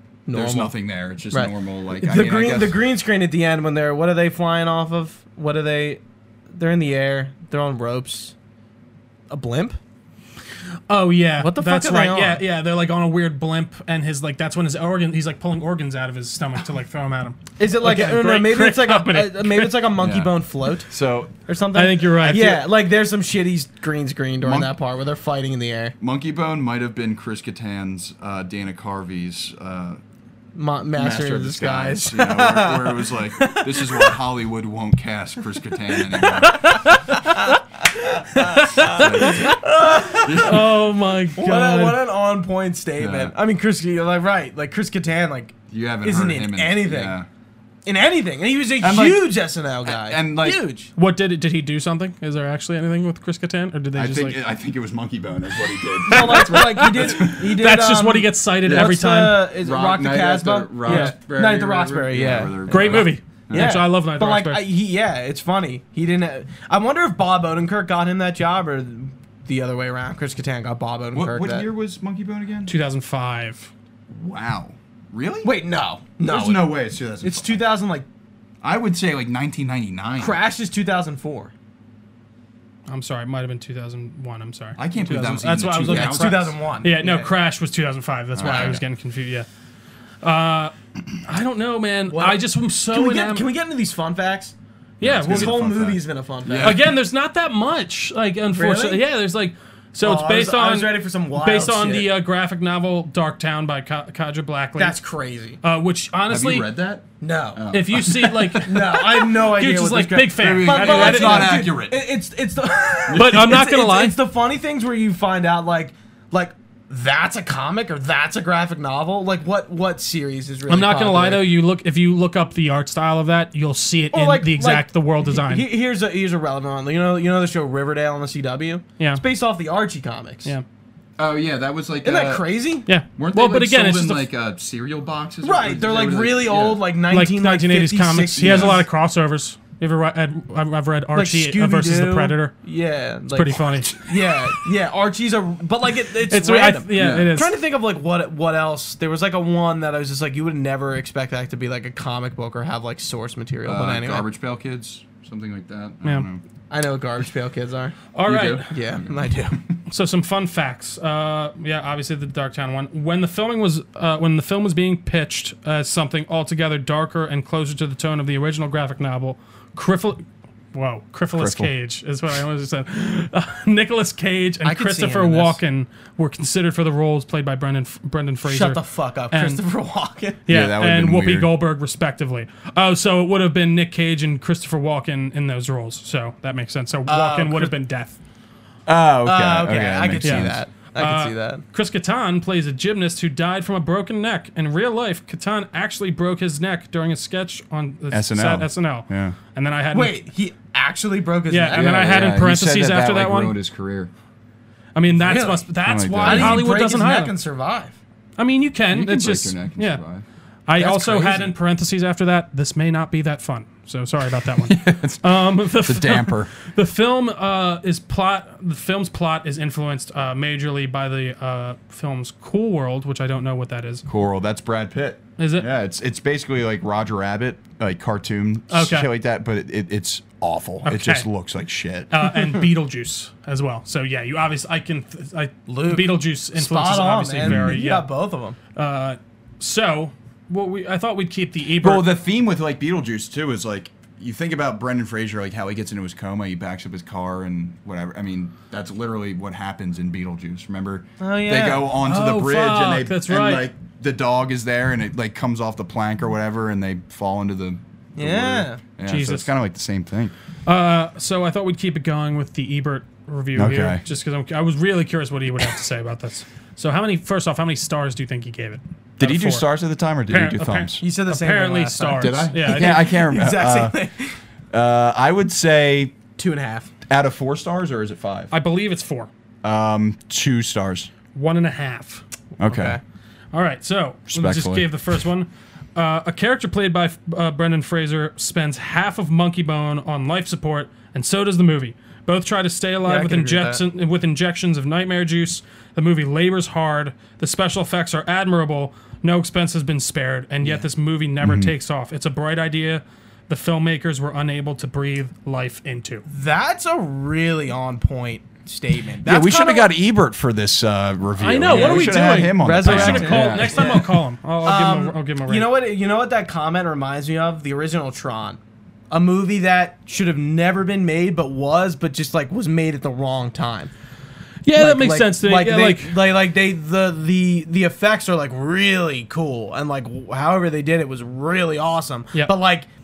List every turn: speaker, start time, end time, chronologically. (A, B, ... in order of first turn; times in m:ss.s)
0:00.3-0:00.7 A
0:00.3-0:02.8 B
0:01.3-0:08.3 A
0:09.3-0:09.8 A
0:10.9-0:19.8 C
0:11.4-0:12.4 A
0:17.6-0:20.9 A
0:20.0-0:21.3 B
0:21.4-0:25.9 A
0:21.7-0:22.6 C
0:24.4-0:24.7 B
0:26.0-0:30.0 B
0:30.5-0:34.0 A
0:31.0-0:36.8 B
0:36.4-0:37.6 C
0:37.1-0:40.8 A
0:38.3-0:42.0 C
0:38.9-0:39.6 B
0:40.2-0:40.8 B
0:41.3-0:47.2 A
0:43.0-0:43.3 B
0:45.7-0:47.3 B
0:47.8-0:50.9 A
0:48.8-0:50.6 B
0:51.0-0:54.4 C
0:53.9-0:57.5 B
0:56.0-1:11.7 A
0:56.1-0:59.5 C
0:58.6-0:59.0 B
0:59.6-1:03.8 B
1:00.8-1:01.1 C
1:02.7-1:04.6 C
1:11.1-1:12.7 B
1:12.7-1:13.7 C
1:14.1-1:15.5 B
1:15.4-1:18.0 A
1:16.2-1:17.6 B
1:18.6-1:20.4 B
1:20.2-1:21.5 A
1:22.9-1:29.5 C
1:24.8-1:26.5 B
1:25.8-1:27.3 A
1:28.3-1:28.8 B
1:28.4-1:28.8 A
1:30.2-1:33.5 C
1:32.1-1:34.5 A
1:35.0-1:35.6 C
1:35.0-1:36.9 B
1:35.2-1:36.8 A
1:36.6-1:45.0 C
1:38.5-1:39.0 A
1:40.0-1:42.1 A
1:44.8-1:45.6 A
1:45.6-1:46.7 C
1:46.3-1:48.6 B
1:47.2-1:47.6 A
1:47.7-1:51.6 C
1:48.5-2:01.5 A
1:50.4-1:52.0 B
1:53.1-1:53.6 B
1:53.1-1:54.2 C
2:00.7-2:05.7 C
2:04.1-2:10.5 A
2:11.2-2:12.4 B
2:12.0-2:12.9 A
2:12.9-2:14.3 C
2:13.2-2:16.8 B
2:15.4-2:18.8 A
2:17.1-2:22.5 C
2:18.4-2:18.8 B
2:21.1-2:34.3 A
2:23.3-2:24.0 C
2:26.3-2:27.5 C
2:26.9-2:27.3 B
2:33.6-2:36.4 B
2:36.7-2:39.6 A
2:38.1-2:38.7 C
2:38.2-2:39.1 B
2:39.9-2:59.6 C
2:51.3-2:51.7 B
2:54.6-2:55.6 A
2:58.4-3:00.4 A
3:00.4-3:08.2 C
3:00.5-3:01.5 B
3:07.1-3:07.7 A
3:08.8-3:10.6 B
3:09.2-3:11.6 A
3:10.2-3:20.2 C
3:18.1-3:19.4 B
3:19.9-3:22.2 A
3:21.5-3:23.5 C
3:21.7-3:24.1 B
3:24.9-3:27.3 C
3:25.1-3:25.6 A
3:25.8-3:26.7 B
3:26.2-3:28.0 A
3:28.4-3:30.0 C
3:28.9-3:30.2 B
3:30.7-3:44.0 C
3:30.8-3:31.5 A
3:34.5-3:36.5 B
3:44.0-3:52.2 B
3:45.4-3:45.7 C
3:48.7-3:49.1 C
3:50.8-3:51.2 C
3:52.1-3:58.1 C
3:55.7-3:58.6 A
3:57.4-3:57.8 B
3:58.7-4:02.0 C
4:01.8-4:20.3 B
4:11.2-4:11.9 A
4:12.0-4:13.7 C
4:18.2-4:18.8 A
4:19.0-4:19.5 C
4:20.6-4:29.6 C
4:23.5-4:24.0 B
4:29.2-4:31.0 B
4:30.3-4:33.1 C
4:31.0-4:34.4 A
4:32.2-4:34.0 B
4:34.7-4:36.2 B
4:36.4-4:36.9 A
4:37.1-4:38.5 B
4:38.5-4:39.3 C
4:39.6-4:41.1 B
4:41.3-4:42.2 C
4:42.6-4:43.0 A
4:42.6-4:43.0 B
4:43.5-5:06.2 C
4:44.3-4:44.9 B
4:53.0-4:53.8 A
5:00.6-5:00.8 A
5:01.4-5:01.7 B
5:06.3-5:09.9 A
5:09.2-5:14.1 B
5:11.4-5:15.7 C
5:11.7-5:18.6 A
5:19.1-5:23.9 A
5:24.6-5:26.2 C
5:24.7-5:32.9 A